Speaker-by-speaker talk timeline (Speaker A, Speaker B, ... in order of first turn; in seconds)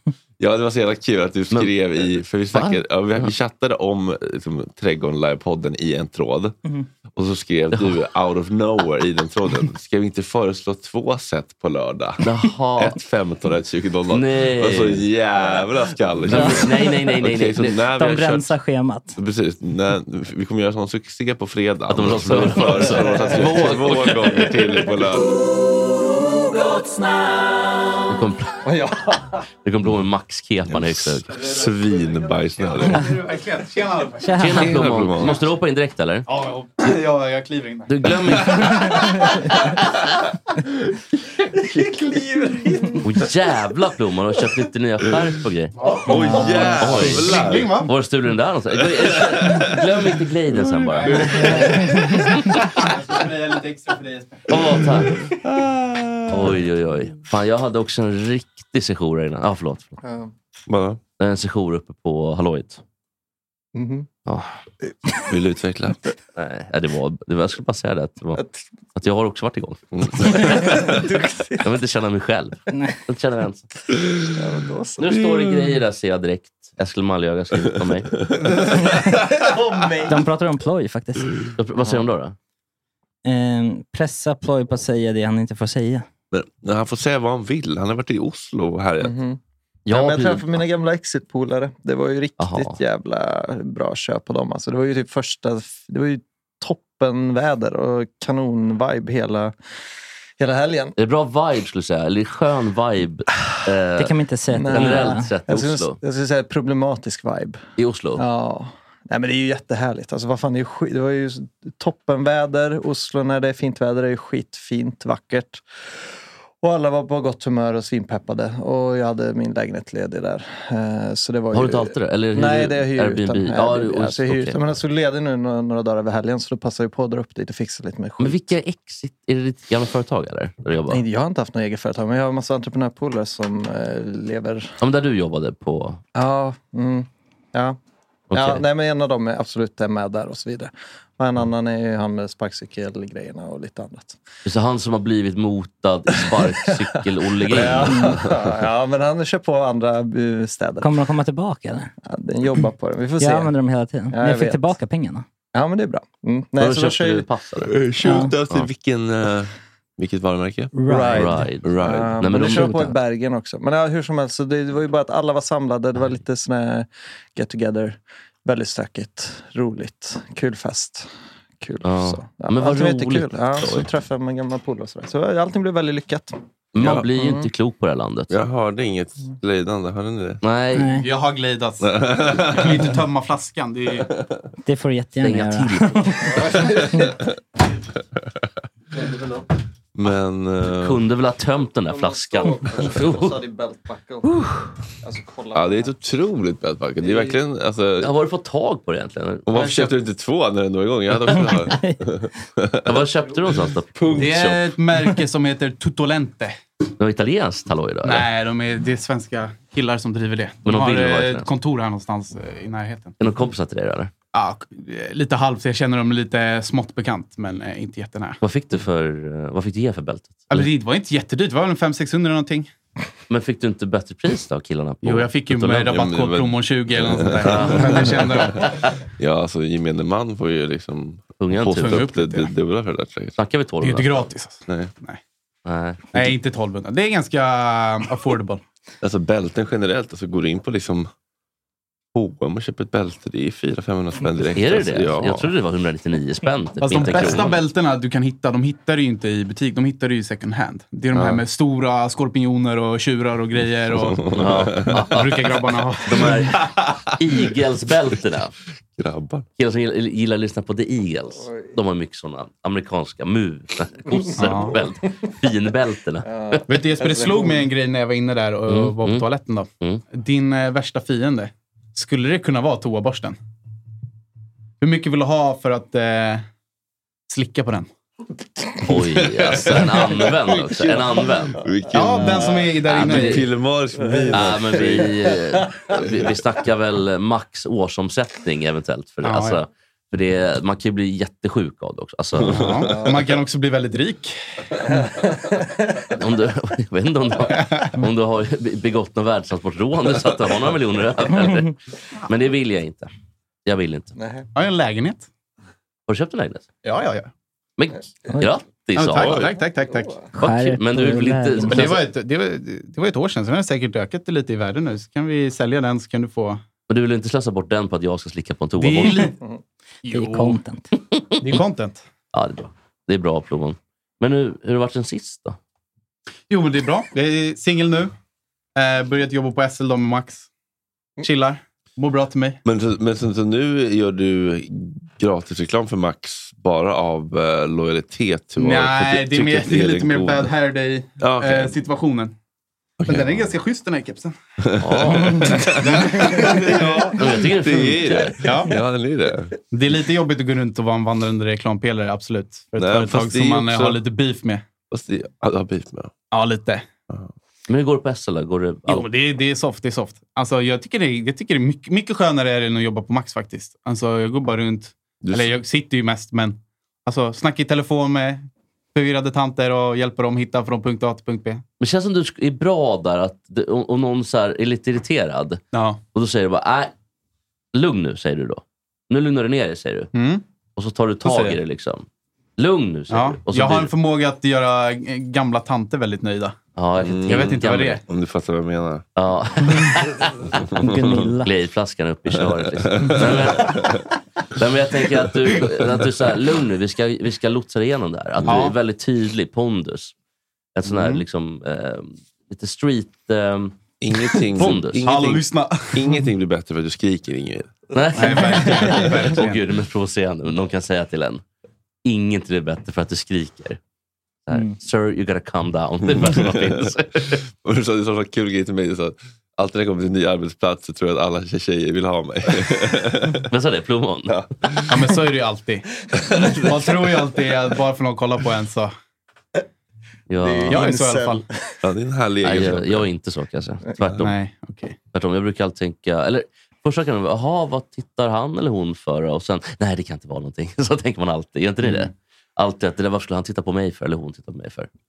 Speaker A: 0.4-6.5, 7.1-18.5, 19.1-25.3, 30.7-33.1, 34.5-35.4, 46.0-47.8, 49.1-49.8, 50.6-52.1, 55.6-56.3, 60.7-61.0, 65.3-66.0, 69.9-71.0, 78.2-78.6, 86.3-89.2, 157.6-160.7, 161.6-162.4, 176.8-177.0, 178.3-180.4, 181.8-182.8, 189.9-191.0, 195.5-198.1, 199.5-203.0, 204.0-204.2, 225.8-228.7, 229.2-233.4, 234.7-234.9, 239.0-241.1, 242.1-245.5, 251.1-251.4, 254.0-255.0, 258.9-259.4, 279.0-279.9, 281.5-285.1, 286.0-286.2, 292.4-293.1, 309.2-309.4, 332.6-340.5, 341.2-341.8, 343.0-343.5, 344.6-349.5, 352.7-354.0, 354.9-356.1, 365.2-365.5, 387.0-389.1, 390.5-391.2, 392.7-394.1, 398.4-398.7, 404.0-407.7, 416.0-416.9, 417.5-423.5, 424.3-425.1, 426.1-427.3, 431.8-433.1
Speaker B: 2.5-3.2, 12.2-13.0, 14.1-15.1, 16.2-17.8, 21.9-24.5, 28.1-28.6, 29.6-31.4, 34.4-36.3, 37.9-39.0, 43.0-52.6, 54.5-55.2, 56.3-60.0, 61.2-62.8, 66.3-70.8, 71.6-73.7, 75.0-78.1, 81.6-82.3, 89.8-90.6, 92.4-92.8, 101.0-106.0, 107.8-108.2, 121.5-124.6, 128.2-131.0, 134.8-136.0, 138.3-138.6, 144.4-148.1, 156.6-157.7, 161.1-162.9, 171.8-173.9, 176.7-178.3, 180.4-180.9, 185.2-186.6, 190.6-193.4, 198.0-199.8, 202.8-204.7, 207.0-208.3, 210.6-211.5, 213.2-214.1, 218.4-220.7, 223.3-225.9, 227.4-228.7, 231.4-232.1, 233.4-234.3, 235.6-236.3, 244.5-247.6, 254.3-255.5, 256.1-258.5, 259.6-266.6, 268.7-269.2, 278.8-281.6, 282.2-283.5, 284.3-292.6, 296.1-301.8, 302.3-303.1, 303.6-304.1, 306.1-306.6, 307.8-309.5, 310.4-312.0, 316.9-319.3, 322.3-325.6, 344.8-345.7, 347.1-348.4, 357.7-359.1, 371.8-375.6, 376.1-376.9, 377.7-380.1, 380.8-382.1, 382.6-383.9, 386.8-388.0, 389.1-390.5, 391.4-393.9, 394.6-400.1, 400.7-403.8, 404.6-405.1, 407.9-411.4, 412.0-413.8, 414.4-417.4, 423.5-424.4, 430.3-430.9, 432.4-434.3, 435.1-444.9
Speaker C: 16.3-16.7, 17.9-19.2, 34.2-34.7, 80.0-81.3, 83.2-86.0, 104.0-105.3, 150.8-151.9, 153.2-155.2, 158.0-158.3, 160.8-161.4, 162.4-162.9, 180.7-181.1, 184.6-186.4, 310.3-311.9, 320.1-320.9, 390.8-391.5
Speaker D: 28.6-29.3, 41.7-43.1, 60.0-60.3, 63.7-64.1, 70.7-71.7, 74.3-75.1, 79.4-80.2, 89.0-89.4, 89.9-99.5, 100.4-100.9, 104.5-107.6, 108.2-115.6, 116.6-128.5, 130.9-134.7, 136.1-137.8, 138.3-144.2, 146.2-146.8, 147.4-151.0, 152.0-153.5, 154.1-154.7, 155.5-157.2, 160.8-171.1, 171.6-176.4, 177.2-177.4, 186.3-187.0, 189.0-189.4, 191.9-194.3, 195.0-195.9, 197.0-197.4, 266.2-267.6, 284.0-285.0, 304.2-304.4, 430.4-431.6
Speaker E: 32.8-34.4, 36.3-38.8, 45.8-47.9, 51.0-51.9, 52.8-54.6, 180.8-184.1, 204.1-206.6, 208.0-213.2, 214.3-218.4, 220.5-222.7, 225.0-228.7, 231.7-232.5, 233.8-235.2, 236.1-238.6, 246.8-254.3, 255.0-256.9, 264.4-264.8, 266.7-273.4, 274.8-276.4, 277.3-277.9, 281.9-283.5, 289.2-289.6, 292.4-294.4, 304.5-305.3, 306.8-307.3, 308.9-310.3, 311.6-316.6, 318.8-319.4, 320.0-320.6, 321.4-322.0, 326.5-328.1, 328.8-330.5, 331.2-332.6, 338.6-342.3, 343.1-344.4, 345.2-347.1, 348.4-348.8, 349.7-354.7, 356.3-356.9, 358.9-371.6, 375.7-376.0, 380.1-380.4, 381.2-381.6, 383.1-386.6, 387.2-388.0, 398.4-398.8, 400.9-401.2, 404.6-406.3, 408.1-409.6, 424.9-425.9, 426.6-428.9, 430.7-431.4, 434.2-434.9, 441.8-442.1